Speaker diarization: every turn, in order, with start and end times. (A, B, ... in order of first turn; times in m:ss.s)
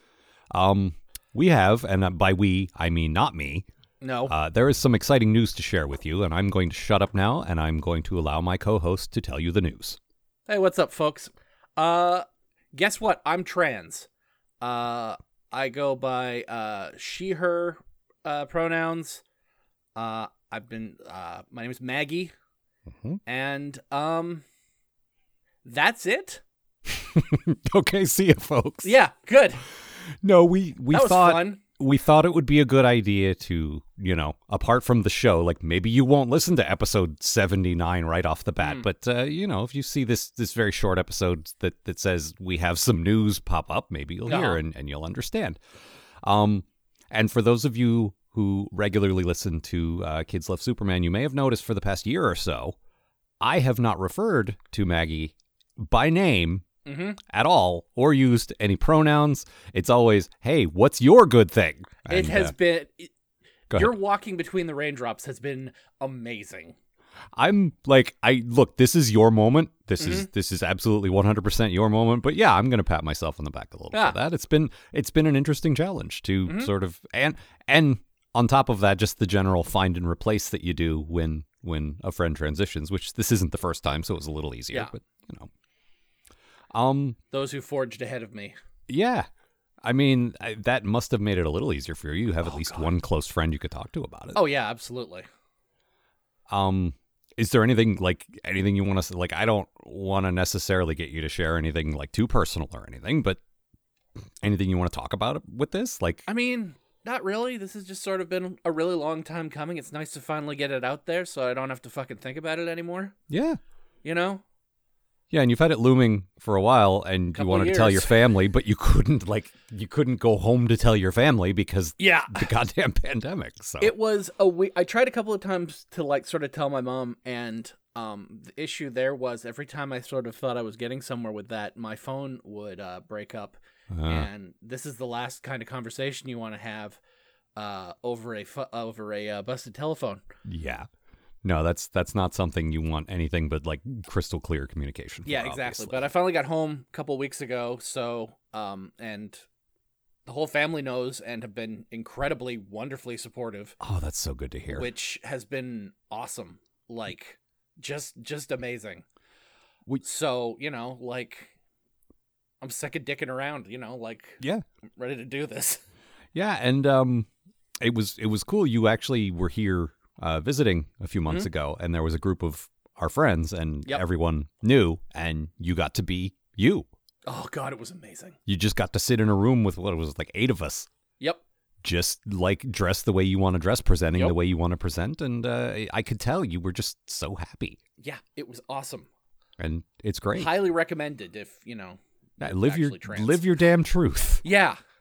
0:00.5-0:03.6 A
0:04.0-0:04.3 B
0:04.3-0:10.0 A
0:10.5-0:14.1 B
0:14.6-0:19.2 B
0:19.9-0:22.3 B
0:23.2-0:24.4 B
0:25.6-0:26.4 B
0:27.0-0:29.0 A
0:28.8-0:29.6 B
0:30.2-0:45.6 A
0:30.9-0:31.6 B
0:38.6-0:38.8 B
0:44.2-0:44.6 B
0:46.2-0:52.8 A
0:53.4-0:56.6 A
0:56.8-0:57.2 B
0:57.3-1:02.5 A
1:02.1-1:03.1 B
1:03.7-1:03.9 A
1:03.7-1:06.7 B
1:07.3-1:25.5 A
1:10.0-1:10.3 B
1:13.9-1:14.2 B
1:26.7-1:27.2 A
1:27.3-1:28.6 B
1:28.9-1:29.2 A
1:29.8-1:34.4 A
1:32.4-1:32.9 B
1:34.3-1:35.2 B
1:36.5-1:43.4 A
1:44.4-1:46.3 A
1:46.3-1:53.1 B
1:53.3-1:53.6 A
1:54.0-1:54.4 B
1:55.3-2:03.9 A
1:57.3-1:58.2 B
2:02.0-2:02.5 B
2:03.8-2:17.0 B
2:13.9-2:14.3 A
2:17.6-2:20.2 B
2:20.4-2:20.9 A
2:21.4-2:26.1 A
2:25.2-2:29.4 B
2:30.2-2:33.8 B
2:33.8-2:34.9 A
2:34.7-2:39.0 B
2:40.0-2:41.5 B
2:42.6-2:44.4 B
2:45.0-2:45.8 B
2:46.3-2:47.3 A
2:47.8-2:56.9 A
2:57.2-2:58.4 B
2:58.4-3:00.9 A
3:01.8-3:07.8 A
3:08.0-3:09.1 B
3:09.6-3:10.6 A
3:10.3-3:13.4 B
3:12.4-3:14.4 A
3:14.4-3:14.8 B